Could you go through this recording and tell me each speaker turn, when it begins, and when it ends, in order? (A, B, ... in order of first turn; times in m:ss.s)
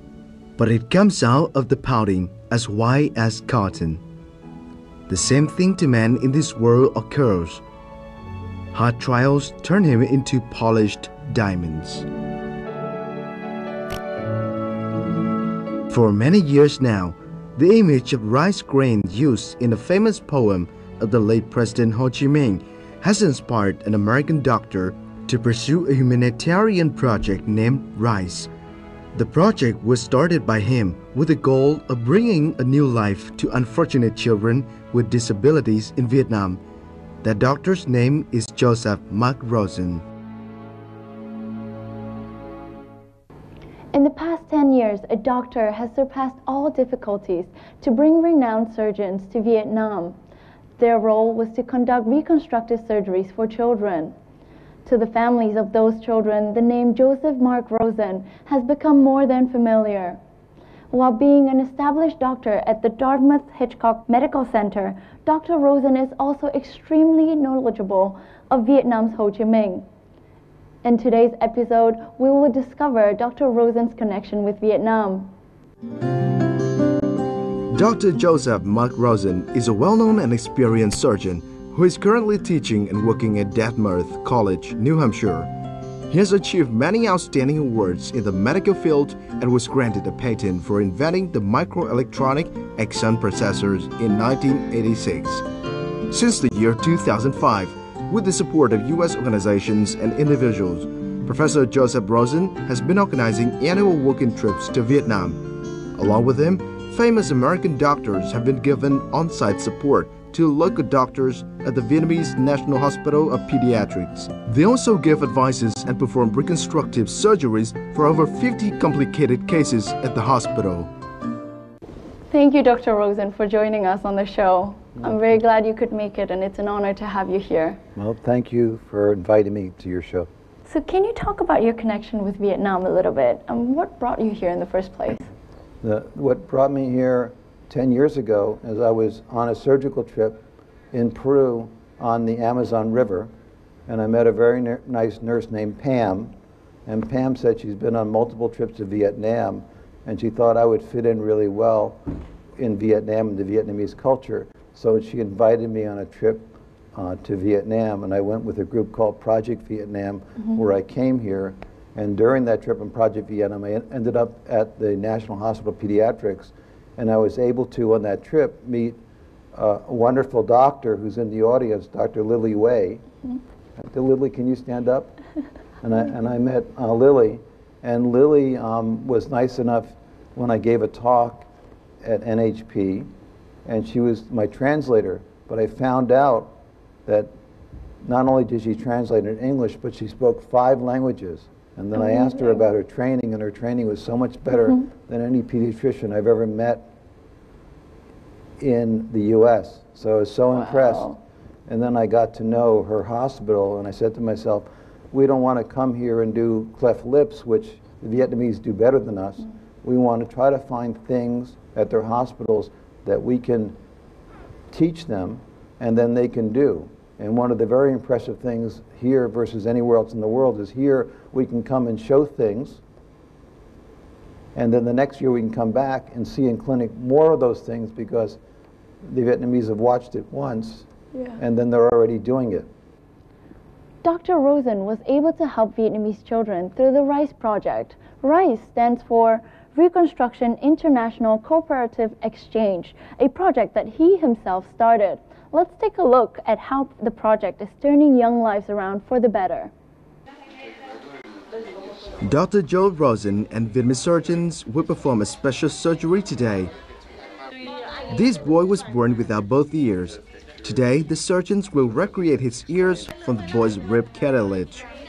0:00.6-0:04.0 A
0:05.1-0:07.6 A
0:08.7-0:12.1 A
0:15.9-0:28.5 A
0:29.1-0:36.6 A
0:37.2-0:40.0 A
0:43.9-0:50.2 B
0:50.8-0:54.1 B
0:54.8-1:00.2 B
1:00.9-1:09.8 B
1:10.8-1:15.3 B
1:17.7-1:25.5 A
1:26.1-1:35.4 A
1:36.1-2:00.9 A
2:02.3-2:07.8 B
2:08.0-2:10.3 C
2:10.6-2:15.3 B
2:15.8-2:23.3 C
2:23.9-2:26.3 C
2:26.8-2:49.0 C
2:49.5-2:53.0 C
2:53.8-2:55.1 C
2:55.8-3:01.5 C
3:02.0-3:03.1 C
3:03.6-3:06.5 C
3:07.0-3:07.3 C
3:08.0-3:16.9 C
3:12.1-3:12.5 B
3:18.6-3:33.8 C
3:20.7-3:21.2 B
3:34.7-3:42.8 C
3:44.5-3:48.4 C
3:49.0-3:52.7 C
3:54.0-4:09.7 B
4:12.2-4:16.7 A
4:18.1-4:24.8 A